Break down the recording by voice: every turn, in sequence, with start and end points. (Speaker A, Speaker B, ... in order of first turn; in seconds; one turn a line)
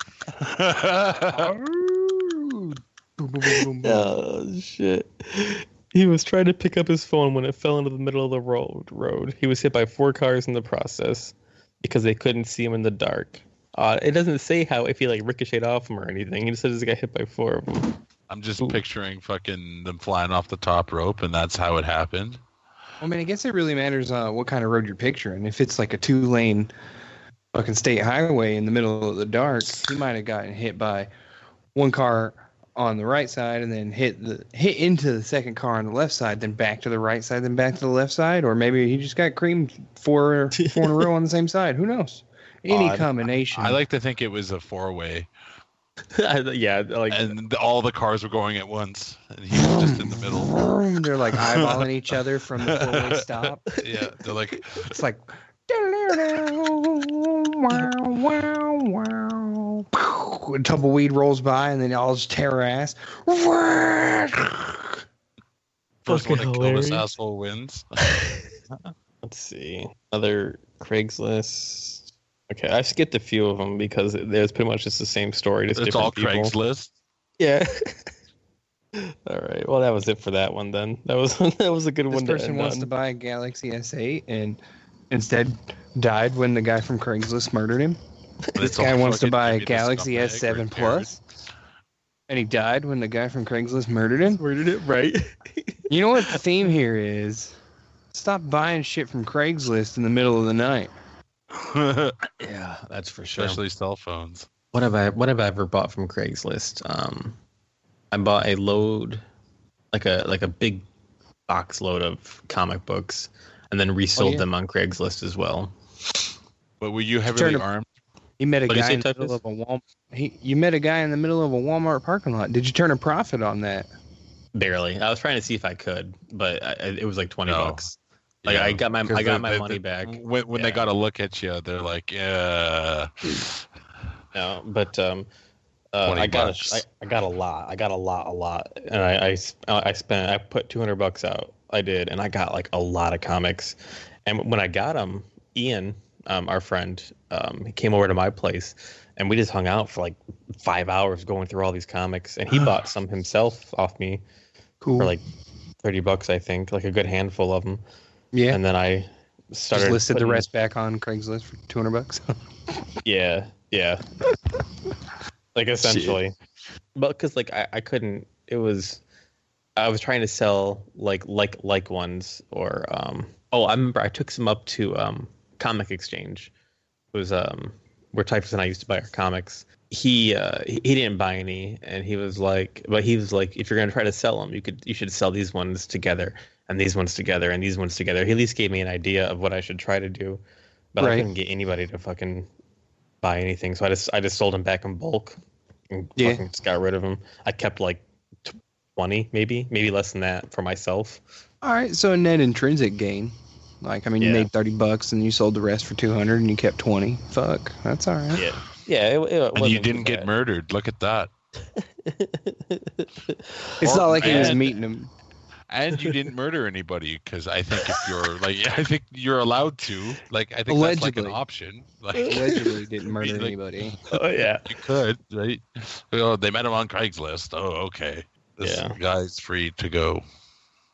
Speaker A: 0.3-1.5
Speaker B: 1.5-4.2
Speaker C: 3.4-18.0
Speaker A: 18.3-22.4
Speaker B: 23.0-26.7
Speaker B: 27.5-31.1
Speaker B: 31.7-43.8
Speaker C: 40.6-41.1
Speaker A: 42.7-45.3
Speaker C: 46.1-47.3
Speaker A: 47.1-50.6
Speaker B: 49.6-53.7
Speaker A: 51.3-55.0
Speaker B: 54.8-64.7
Speaker A: 66.0-67.8
Speaker C: 66.1-67.1
Speaker C: 69.2-76.5
Speaker A: 75.8-76.9
Speaker C: 77.4-77.7
Speaker C: 79.0-82.9
Speaker B: 82.1-84.6
Speaker B: 85.1-88.0
Speaker A: 88.6-91.1
Speaker B: 88.6-91.2
Speaker B: 92.3-94.4
Speaker C: 94.2-96.4
Speaker B: 95.9-97.5
Speaker B: 98.1-100.9
Speaker A: 101.5-102.2
Speaker C: 102.4-103.6
Speaker A: 103.4-104.5
Speaker C: 104.7-107.4
Speaker C: 108.1-109.2
Speaker C: 109.9-110.8
Speaker C: 111.5-115.7
Speaker B: 114.2-114.5
Speaker A: 116.8-117.9
Speaker B: 117.3-117.7
Speaker B: 118.4-123.9
Speaker C: 118.7-119.4
Speaker C: 124.5-130.9
Speaker A: 127.4-127.8
Speaker A: 128.4-133.6
Speaker C: 134.3-135.3
Speaker C: 135.9-154.2
Speaker A: 136.0-136.8
Speaker B: 154.8-155.1
Speaker C: 155.0-155.2
Speaker C: 155.8-157.8
Speaker B: 158.3-158.6
Speaker C: 158.5-160.5
Speaker B: 159.7-162.3
Speaker C: 163.0-164.0
Speaker C: 165.5-166.3
Speaker C: 166.9-169.0
Speaker C: 169.8-176.5
Speaker C: 177.1-190.4
Speaker C: 190.9-192.5
Speaker B: 191.0-191.3
Speaker C: 193.2-195.4
Speaker C: 195.9-201.2
Speaker B: 196.2-196.4
Speaker B: 201.6-208.4
Speaker C: 204.2-204.5
Speaker C: 208.3-210.3
Speaker A: 209.5-211.3
Speaker C: 211.8-214.6
Speaker B: 213.8-215.1
Speaker A: 213.8-214.8
Speaker A: 215.7-222.6
Speaker B: 220.7-221.4
Speaker C: 222.2-222.6
Speaker B: 222.2-224.0
Speaker A: 223.2-223.6
Speaker C: 224.1-224.7
Speaker A: 224.7-230.2
Speaker C: 228.6-228.9